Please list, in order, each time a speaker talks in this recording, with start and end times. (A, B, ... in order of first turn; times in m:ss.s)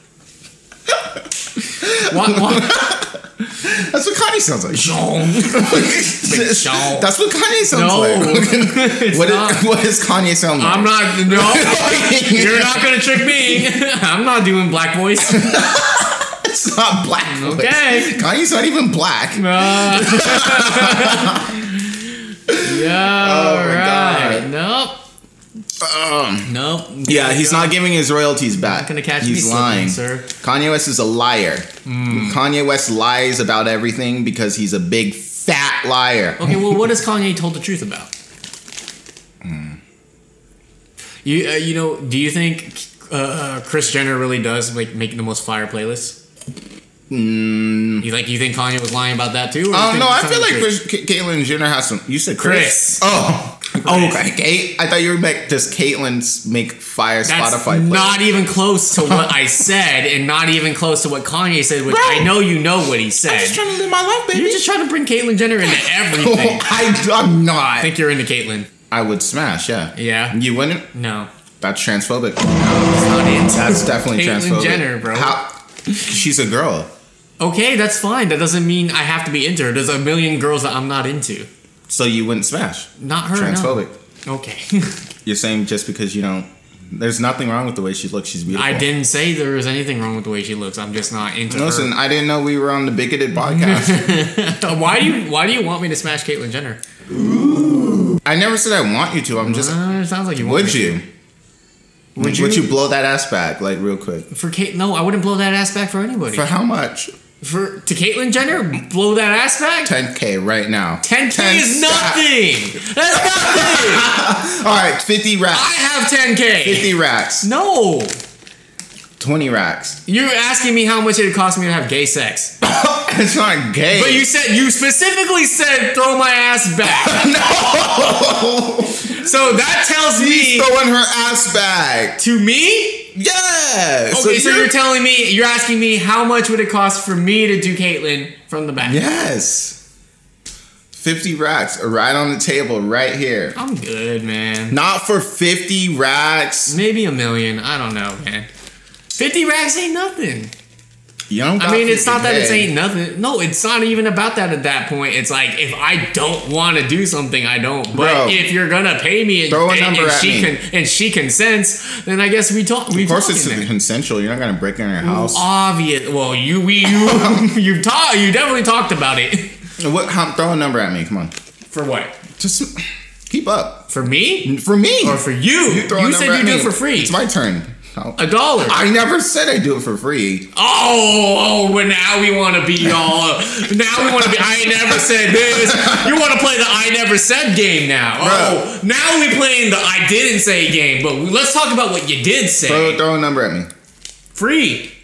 0:01.8-0:12.8 A
0:02.0-0:02.9 B
0:04.7-0:07.1 B
0:07.7-0:09.7 B
0:10.6-0:15.7 B
0:15.3-0:21.5 A
0:17.3-0:18.2 B
0:19.3-0:25.0 B
0:22.5-0:24.5 A
0:25.8-0:36.7 A
0:26.4-0:27.8 B
0:28.6-0:30.3 B
0:31.8-0:32.4 B
0:36.4-0:38.1 B
0:39.4-0:39.8 A
0:41.2-0:46.2 B
0:47.1-0:48.1 A
0:48.0-0:50.7 B
0:49.7-0:58.3 A
0:52.4-0:53.0 B
0:53.8-0:54.2 B
0:57.2-1:03.6 B
0:59.0-0:59.3 A
1:01.9-1:02.4 A
1:03.2-1:04.6 A
1:04.3-1:06.7 B
1:06.1-1:07.9 A
1:07.8-1:08.7 B
1:08.9-1:10.9 A
1:10.0-1:10.4 B
1:10.9-1:11.3 B
1:11.6-1:12.5 A
1:12.6-1:15.4 B
1:13.5-1:16.9 A
1:17.4-1:21.5 B
1:21.9-1:23.9 A
1:23.0-1:25.0 B
1:25.2-1:28.9 A
1:28.5-1:31.9 B
1:31.5-1:34.1 A
1:33.4-1:36.8 B
1:37.2-1:39.8 A
1:39.4-1:41.0 B
1:40.4-1:41.0 A
1:42.2-1:42.7 B
1:42.2-1:44.3 A
1:44.3-1:46.5 B
1:46.3-1:47.1 A
1:47.4-1:49.9 B
1:49.8-1:52.2 A
1:51.0-1:54.1 B
1:53.4-1:55.7 A
1:55.5-1:58.2 B
1:56.6-1:57.5 A
1:59.2-2:00.0 A
2:00.1-2:02.6 B
2:02.6-2:04.3 A
2:03.9-2:07.3 B
2:07.0-2:09.2 A
2:09.0-2:10.7 B
2:10.1-2:12.2 A
2:12.2-2:13.1 B
2:13.1-2:14.7 A
2:14.1-2:19.0 B
2:18.8-2:19.8 A
2:20.9-2:23.6 A
2:23.6-2:24.8 B
2:24.7-2:26.8 A
2:26.7-2:28.5 B
2:29.2-2:30.5 B
2:31.3-2:32.7 A
2:31.6-2:43.7 B
2:37.9-2:38.4 A
2:39.5-2:40.5 A
2:42.9-2:45.4 A
2:45.0-2:49.6 B
2:46.9-2:47.5 A
2:49.8-2:51.3 A
2:51.7-2:52.2 B
2:52.4-2:53.9 A
2:53.9-2:57.2 B
2:54.4-3:00.5 A
2:58.2-2:58.8 B
3:00.6-3:13.0 B
3:05.7-3:06.0 A
3:08.2-3:08.6 A
3:12.6-3:13.7 A
3:14.3-3:14.9 B